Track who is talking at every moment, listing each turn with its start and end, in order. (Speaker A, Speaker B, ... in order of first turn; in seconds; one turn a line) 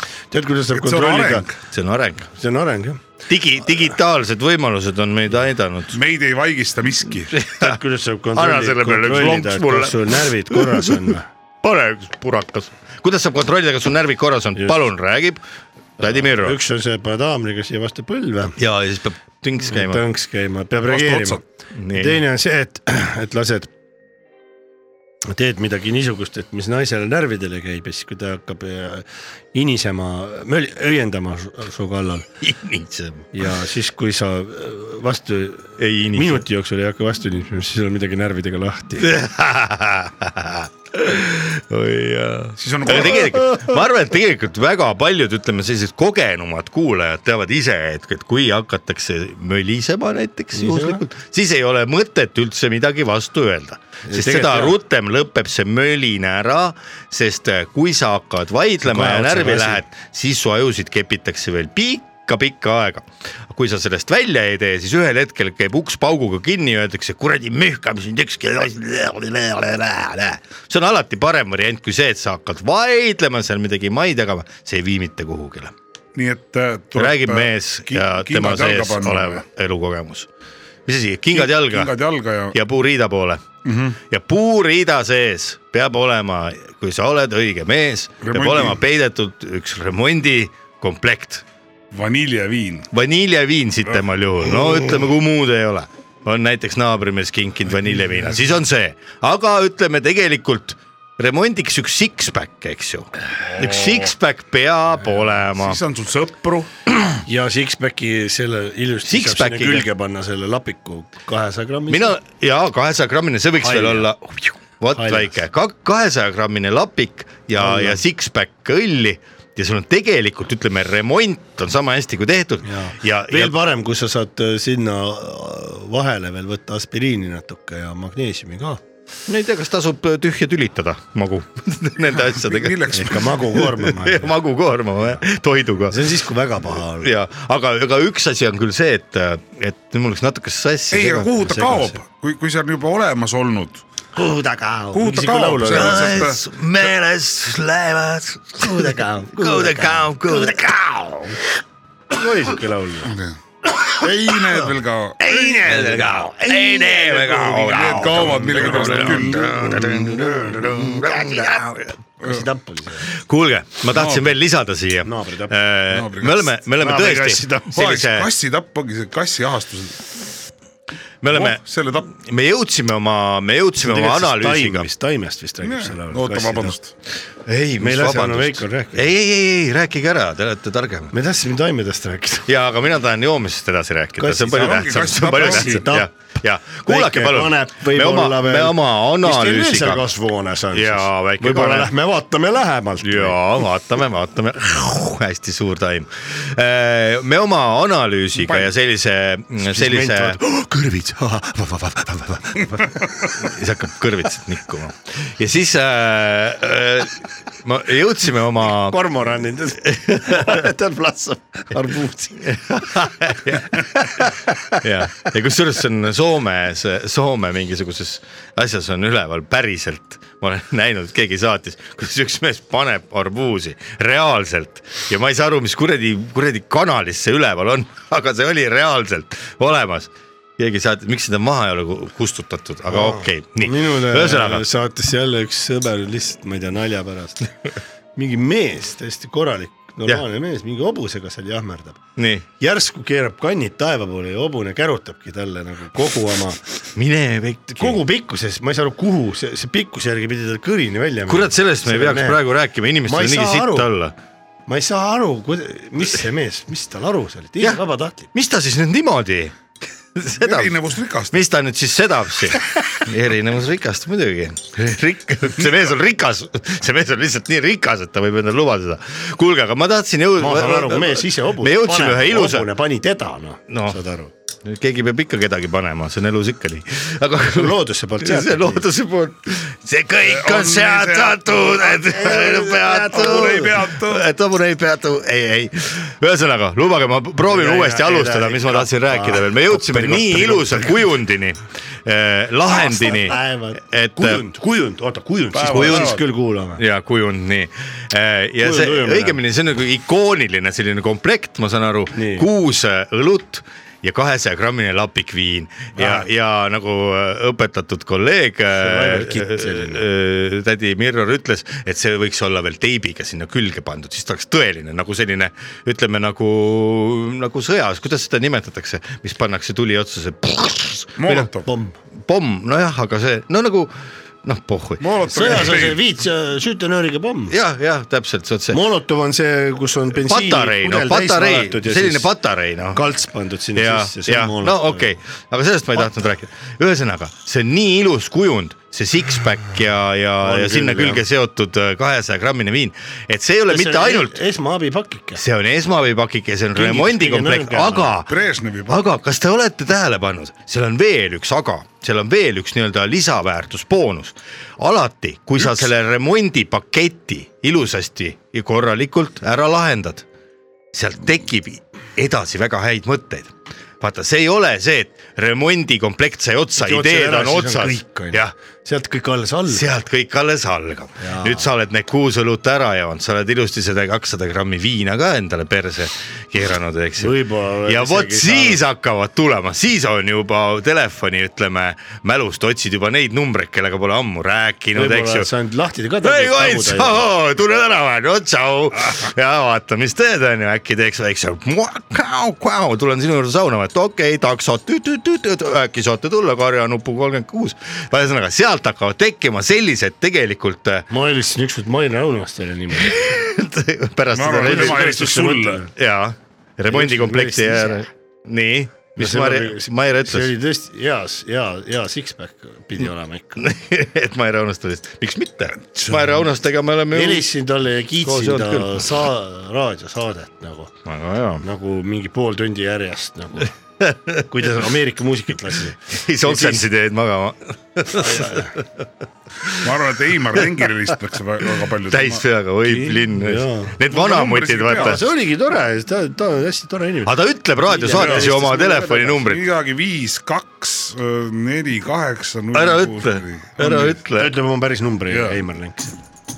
Speaker A: 0.3-1.5
Speaker B: 0.7-1.6
Speaker C: 1.7-2.3
Speaker A: 2.3-3.0
Speaker C: 3.3-6.0
Speaker B: 5.9-7.3
Speaker C: 7.3-7.8
Speaker A: 7.6-11.3
Speaker C: 8.3-15.4
Speaker C: 16.0-16.6
Speaker A: 16.0-18.6
Speaker C: 18.6-20.0
Speaker A: 19.6-23.7
Speaker B: 20.9-21.4
Speaker C: 21.7-22.2
Speaker A: 25.3-32.3
Speaker C: 32.4-33.3
Speaker A: 33.3-39.1
Speaker C: 35.8-36.4
Speaker C: 39.0-75.7
Speaker B: 42.6-43.4
Speaker A: 50.5-51.0
Speaker A: 54.0-54.8
Speaker A: 58.8-59.8
Speaker B: 76.1-79.4
Speaker C: 76.9-80.3
Speaker C: 80.8-82.0
Speaker B: 81.3-82.6
Speaker C: 82.5-83.4
Speaker B: 83.6-84.0
Speaker C: 84.0-91.4
Speaker B: 88.2-88.8
Speaker B: 91.9-92.9
Speaker C: 92.9-105.8
Speaker B: 103.5-104.1
Speaker B: 105.6-106.7
Speaker A: 107.2-112.1
Speaker C: 109.0-109.9
Speaker C: 111.9-123.6
Speaker A: 113.6-114.1
Speaker A: 114.9-115.3
Speaker A: 117.6-118.0
Speaker A: 122.6-128.8
Speaker C: 129.3-136.1
Speaker B: 132.3-133.2
Speaker A: 132.9-134.3
Speaker A: 135.9-137.1
Speaker C: 137.0-141.3
Speaker B: 140.9-143.8
Speaker A: 141.3-142.0
Speaker A: 144.1-146.2
Speaker B: 144.9-146.4
Speaker C: 145.6-150.8
Speaker A: 148.6-151.4
Speaker A: 152.1-153.1
Speaker B: 153.1-155.3
Speaker A: 155.2-161.6
Speaker C: 155.2-161.9
Speaker B: 156.9-160.3
Speaker A: 162.2-163.1
Speaker C: 163.1-168.3
Speaker B: 163.9-164.3
Speaker A: 165.0-165.6
Speaker B: 165.9-166.5
Speaker A: 166.8-167.8
Speaker B: 167.7-170.1
Speaker C: 171.2-174.9
Speaker B: 171.3-172.1
Speaker A: 173.8-176.7
Speaker B: 175.6-176.9
Speaker C: 177.4-181.1
Speaker A: 177.8-179.1
Speaker A: 181.1-182.5
Speaker C: 182.5-190.0
Speaker A: 184.2-186.1
Speaker B: 184.5-185.9
Speaker A: 186.8-193.4
Speaker C: 190.7-191.9
Speaker C: 193.0-200.4
Speaker B: 198.4-198.7
Speaker A: 199.6-203.2
Speaker C: 203.3-209.0
Speaker A: 208.7-213.0
Speaker C: 209.8-210.7
Speaker C: 212.4-234.6
Speaker A: 214.2-214.8
Speaker A: 232.9-237.6
Speaker A: 238.2-242.0
Speaker C: 242.2-242.4
Speaker A: 242.6-246.6
Speaker C: 246.9-248.0
Speaker A: 247.8-252.4
Speaker C: 251.3-254.1
Speaker A: 253.0-253.9
Speaker A: 254.7-258.3
Speaker C: 258.3-259.6
Speaker C: 260.1-260.8
Speaker B: 260.4-261.4
Speaker C: 261.3-272.7
Speaker A: 270.4-274.3
Speaker C: 273.7-274.0
Speaker C: 274.6-294.4
Speaker A: 277.4-278.9
Speaker B: 280.2-281.9
Speaker A: 282.0-283.7
Speaker B: 283.1-284.2
Speaker A: 287.4-291.0
Speaker A: 292.6-296.8
Speaker B: 295.5-296.2
Speaker C: 295.7-296.1
Speaker C: 296.8-321.5
Speaker A: 298.6-299.4
Speaker A: 302.1-302.5
Speaker A: 306.0-306.2
Speaker A: 308.7-310.0
Speaker B: 321.2-321.7
Speaker A: 321.6-321.9
Speaker C: 322.2-323.9
Speaker C: 324.4-325.8
Speaker B: 325.0-326.0
Speaker A: 325.3-327.6
Speaker C: 327.5-328.8
Speaker A: 328.7-332.3
Speaker C: 330.1-333.0
Speaker A: 332.9-335.1
Speaker C: 333.7-344.4
Speaker A: 340.4-341.2
Speaker A: 343.7-345.4
Speaker C: 345.4-348.3
Speaker A: 346.7-348.1
Speaker B: 348.3-349.1
Speaker C: 348.9-360.2
Speaker C: 360.9-368.5
Speaker A: 366.8-369.9
Speaker C: 369.7-385.5
Speaker A: 371.2-371.7
Speaker A: 377.2-378.8
Speaker A: 384.9-387.3
Speaker C: 386.2-401.1
Speaker A: 401.1-403.2
Speaker C: 403.0-405.2
Speaker B: 404.3-405.8
Speaker A: 404.5-405.9
Speaker C: 405.9-410.5
Speaker A: 406.9-408.0
Speaker A: 409.2-413.7
Speaker C: 413.6-417.4
Speaker B: 415.9-416.3
Speaker A: 417.1-420.9
Speaker C: 418.2-419.1
Speaker C: 421.0-421.6
Speaker A: 421.6-423.7
Speaker C: 424.0-424.5
Speaker A: 424.5-426.8
Speaker C: 426.1-428.8
Speaker A: 428.1-428.7
Speaker B: 429.7-432.4
Speaker C: 432.1-435.2
Speaker A: 432.9-434.0
Speaker B: 434.1-435.2
Speaker A: 434.9-438.9
Speaker C: 437.2-439.7
Speaker B: 438.1-444.2
Speaker C: 442.7-444.5
Speaker A: 444.3-446.2
Speaker B: 445.3-445.6